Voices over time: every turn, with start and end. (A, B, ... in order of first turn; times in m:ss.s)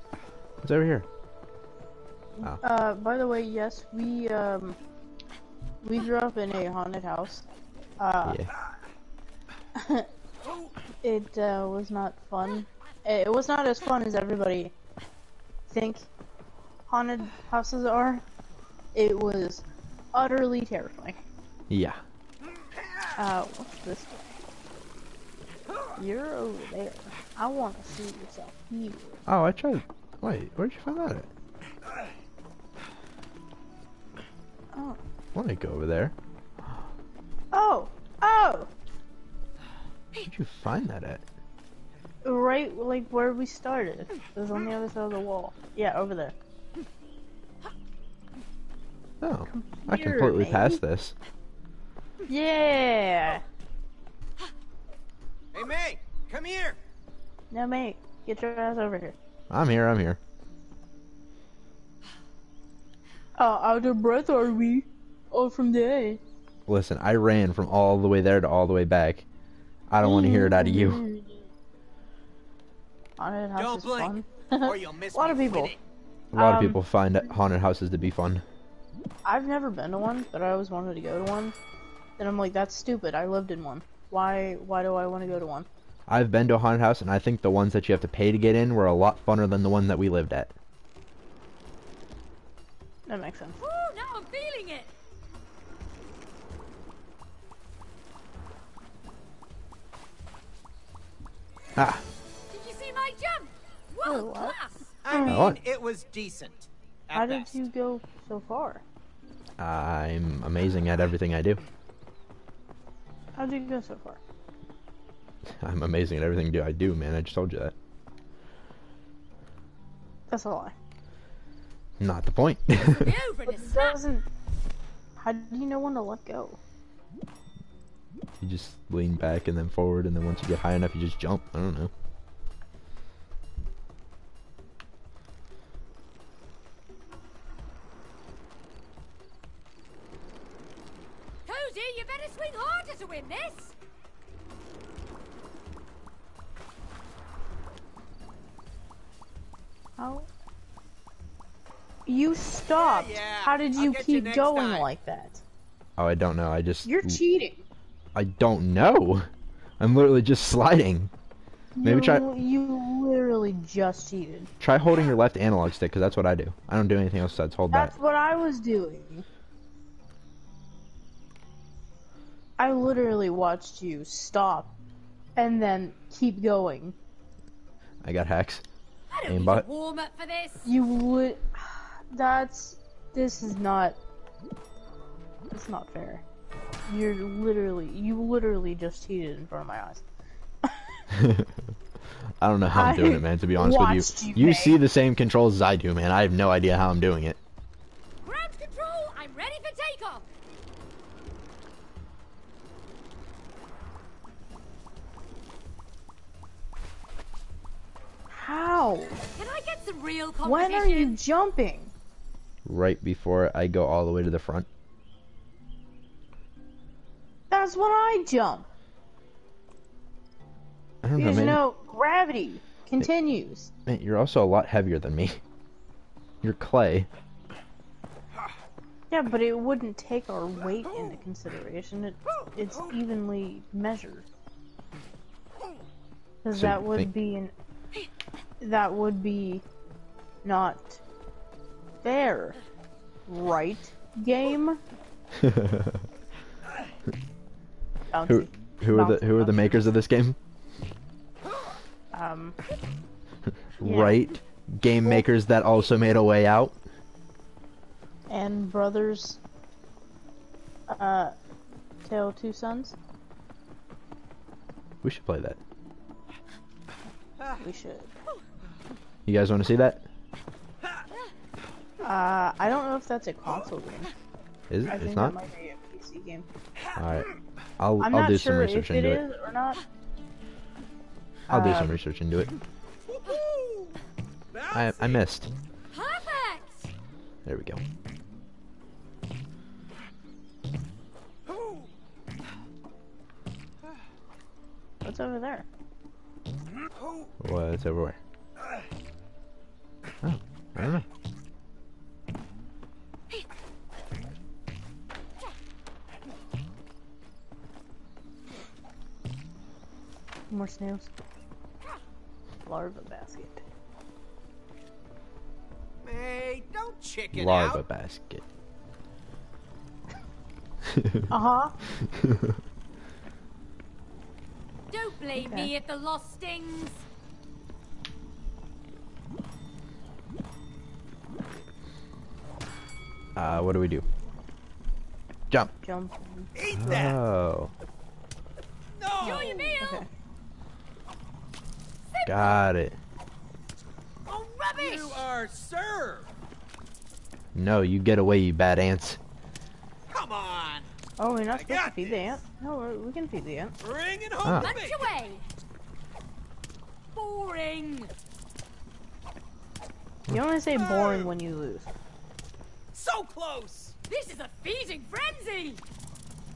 0:00.6-0:01.1 A
0:02.4-0:04.8 B
0:05.8-0:07.4 B
0:08.0-0:08.5 B
0:09.8-0:10.1 B
0:10.4-0:10.7 C
0:11.0-0:14.7 B
0:15.7-0:16.1 B
0:16.9-0:18.2 B
0:18.9-0:21.2 B
0:21.7-0:22.0 A
0:22.7-0:23.1 C
0:23.2-0:24.4 B
0:26.0-0:29.2 B
0:29.3-0:31.3 A
0:34.7-0:35.0 B
0:35.3-0:36.1 A
0:37.5-0:38.7 B
0:40.2-0:41.2 A
0:42.2-0:46.3 B
0:49.2-0:51.1 A
0:49.5-0:50.8 B
0:52.3-0:53.4 B
0:55.5-0:56.8 C
0:57.5-0:59.1 B
0:59.5-1:00.2 A
1:03.4-1:06.2 B
1:06.7-1:09.2 A
1:09.9-1:11.0 A
1:10.0-1:11.4 B
1:13.2-1:15.7 B
1:13.6-1:15.8 C
1:16.3-1:18.4 A
1:16.3-1:16.8 B
1:19.2-1:21.6 B
1:22.2-1:25.7 B
1:26.1-1:30.5 A
1:33.1-1:33.6 B
1:33.6-1:34.9 D
1:41.8-1:42.0 A
1:42.5-1:44.9 D
1:44.0-1:44.6 B
1:45.0-1:47.6 C
1:45.1-1:45.5 B
1:45.2-1:45.6 A
1:47.1-1:48.8 B
1:49.6-1:51.6 A
1:53.4-1:54.2 B
1:55.5-1:57.7 A
2:00.3-2:00.7 B
2:02.0-2:03.1 A
2:02.8-2:04.0 D
2:03.4-2:04.2 B
2:05.2-2:06.6 B
2:08.4-2:11.9 A
2:21.4-2:23.7 D
2:30.0-2:30.3 B
2:32.0-2:35.4 B
2:32.7-2:34.9 C
2:36.0-2:37.2 A
2:36.8-2:37.6 B
2:38.1-2:39.3 A
2:39.8-2:41.1 A
2:41.8-2:44.5 B
2:41.8-2:42.2 A
2:44.6-2:47.9 A
2:47.7-2:49.2 B
2:52.6-2:54.7 B
2:55.4-2:57.0 B
2:58.0-2:58.6 A
2:59.1-3:00.7 D
2:59.3-2:59.6 A
3:00.6-3:04.0 B
3:05.5-3:06.2 B
3:06.8-3:10.0 B
3:11.1-3:11.6 A
3:12.4-3:17.4 A
3:12.7-3:14.8 B
3:18.2-3:20.2 D
3:28.3-3:29.2 B
3:29.4-3:31.2 D
3:30.4-3:31.9 B
3:32.6-3:34.7 A
3:37.5-3:38.7 B
3:41.0-3:41.6 A
3:41.1-3:43.7 B
3:43.8-3:45.4 A
3:46.4-3:47.1 A
3:49.1-3:54.2 B
3:56.4-3:57.5 B
3:56.5-3:57.1 A
3:58.6-3:59.6 B
4:00.4-4:01.0 B
4:02.0-4:02.6 B
4:03.3-4:04.8 B
4:05.4-4:06.0 A
4:08.1-4:10.0 B
4:08.3-4:10.4 A
4:12.1-4:12.6 B
4:13.8-4:16.8 A
4:13.8-4:14.3 B
4:18.3-4:19.4 B
4:20.9-4:21.3 B
4:22.0-4:23.0 B
4:25.0-4:25.6 A
4:27.6-4:28.1 B
4:29.2-4:30.1 A
4:32.0-4:34.1 B
4:34.7-4:35.3 A
4:34.9-4:36.5 B
4:37.0-4:37.3 A
4:37.8-4:39.2 A
4:38.0-4:39.8 B
4:41.5-4:42.0 B
4:41.5-4:42.5 A
4:43.0-4:44.0 C
4:44.5-4:45.2 C
4:44.7-4:45.5 A
4:45.9-4:46.9 D
4:47.4-4:47.8 A
4:51.5-4:51.9 C
4:55.0-4:55.6 B
4:57.0-4:57.3 C
4:57.4-4:58.2 A
5:00.2-5:01.0 A
5:10.5-5:11.1 B
5:12.6-5:13.6 B
5:16.0-5:17.8 C
5:17.3-5:18.4 A
5:20.8-5:21.2 A
5:21.3-5:21.8 B
5:22.1-5:22.5 A
5:24.9-5:27.0 D
5:25.4-5:25.7 B
5:33.4-5:34.0 A
5:35.8-5:37.0 B
5:36.5-5:37.2 C
5:36.8-5:37.7 A
5:39.0-5:39.8 C
5:39.2-5:40.1 D
5:39.2-5:40.1 B
5:42.1-5:42.7 D
5:42.2-5:43.0 A
5:44.3-5:45.2 D
5:44.7-5:46.3 C
5:47.5-5:49.2 A
5:50.1-5:50.9 C
5:51.2-5:53.7 B
5:51.5-5:52.4 C
5:53.8-5:55.1 C
5:54.4-5:54.7 A
5:54.5-5:55.4 D
5:57.1-5:58.1 D
6:00.3-6:01.9 B
6:00.7-6:01.3 C
6:02.9-6:04.0 C
6:04.1-6:05.8 D